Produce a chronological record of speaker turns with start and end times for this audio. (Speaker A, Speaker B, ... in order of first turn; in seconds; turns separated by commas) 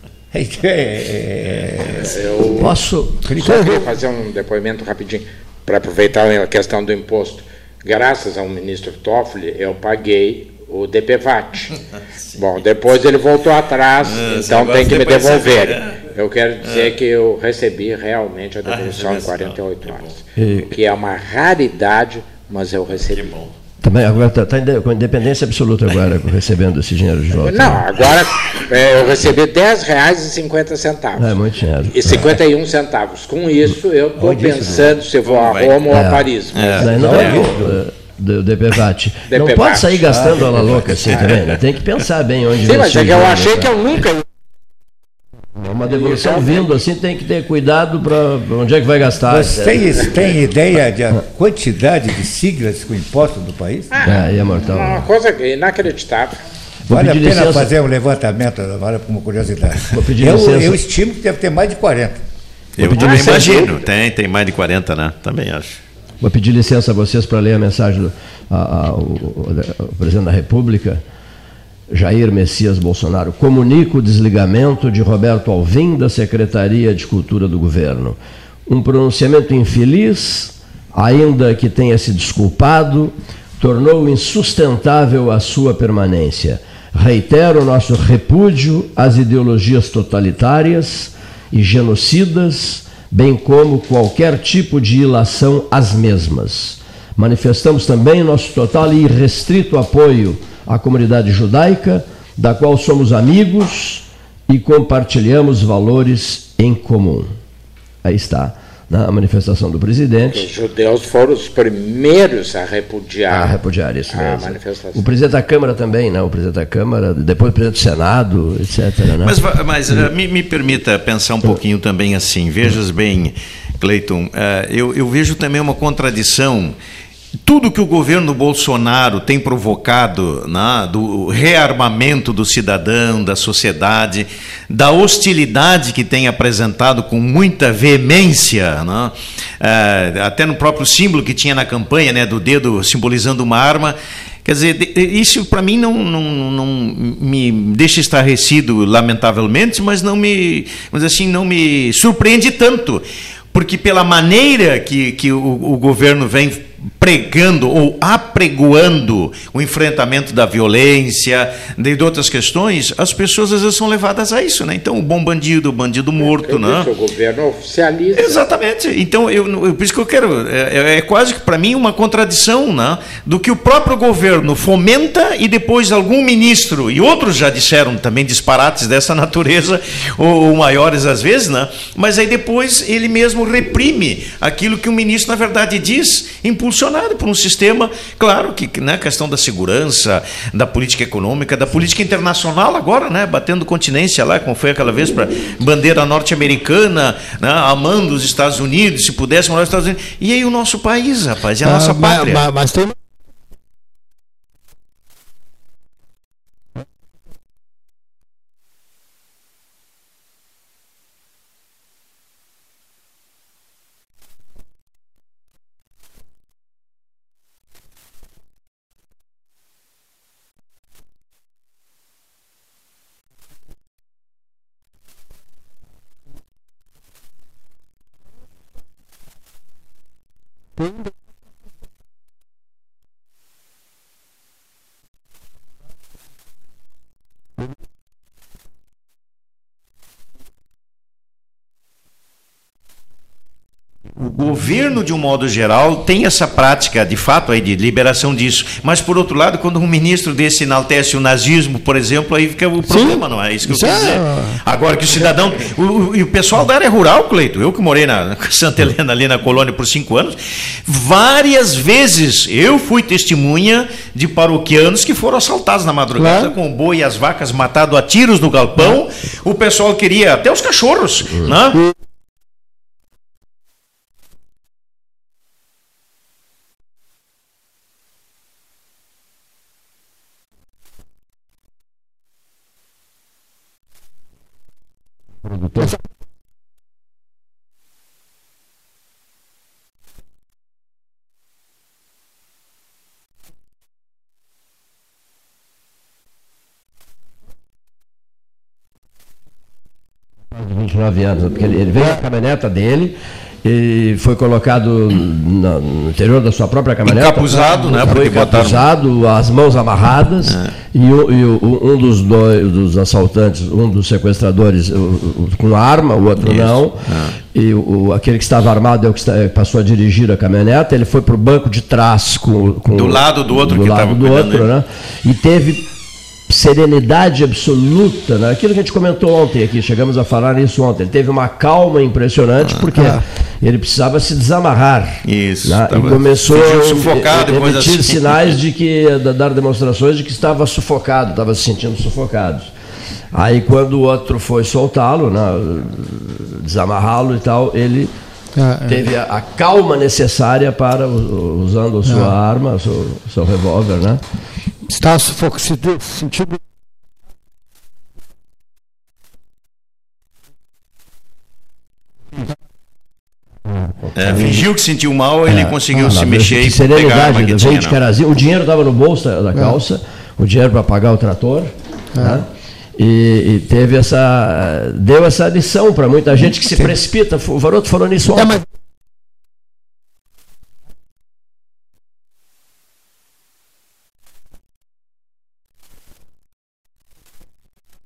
Speaker A: 0.3-2.2, Speaker B: 1.9-2.8, Speaker C: 2.6-3.7, Speaker A: 3.2-3.8, Speaker B: 3.4-11.7, Speaker B: 12.3-23.3, Speaker D: 14.0-15.9, Speaker D: 16.6-16.9, Speaker D: 18.6-20.1, Speaker C: 20.4-20.7, Speaker D: 23.1-23.5, Speaker C: 23.8-27.8, Speaker B: 27.4-31.4, Speaker C: 31.2-32.3, Speaker B: 31.9-37.4, Speaker A: 34.1-35.0, Speaker D: 35.2-37.4, Speaker C: 35.9-36.3, Speaker C: 36.8-43.7, Speaker A: 36.8-37.8, Speaker B: 39.3-40.2, Speaker A: 40.1-41.2, Speaker B: 41.1-41.4, Speaker B: 42.6-44.2, Speaker C: 45.6-50.1, Speaker B: 45.8-46.7, Speaker A: 49.2-53.9, Speaker B: 53.9-56.4, Speaker C: 54.0-55.1, Speaker C: 56.9-57.7, Speaker A: 56.9-62.2, Speaker C: 59.9-60.8, Speaker C: 62.8-63.6, Speaker D: 62.8-65.8, Speaker B: 62.9-63.8, Speaker C: 66.2-71.0, Speaker C: 71.9-107.3, Speaker C: 108.0-110.4, Speaker B: 110.3-113.6, Speaker C: 113.3-119.4, Speaker B: 114.1-115.0, Speaker D: 119.2-126.8, Speaker D: 127.4-166.9, Speaker B: 166.2-168.4, Speaker D: 168.2-202.4, Speaker E: 201.6-202.9, Speaker D: 244.2-271.8, Speaker E: 252.9-254.6, Speaker E: 266.1-266.5, Speaker C: 300.6-325.9, Speaker D: 307.1-308.9, Speaker D: 310.4-310.7, Speaker D: 316.4-317.4, Speaker D: 322.9-324.7, Speaker C: 326.5-342.7, Speaker D: 332.6-333.1, Speaker D: 335.2-338.6, Speaker C: 343.3-348.1, Speaker E: 348.6-349.1, Speaker C: 348.8-354.2, Speaker E: 352.1-352.3, Speaker E: 354.9-356.6, Speaker D: 364.2-368.0, Speaker A: 364.2-364.5, Speaker C: 365.5-378.6, Speaker E: 372.2-372.4, Speaker E: 378.4-378.6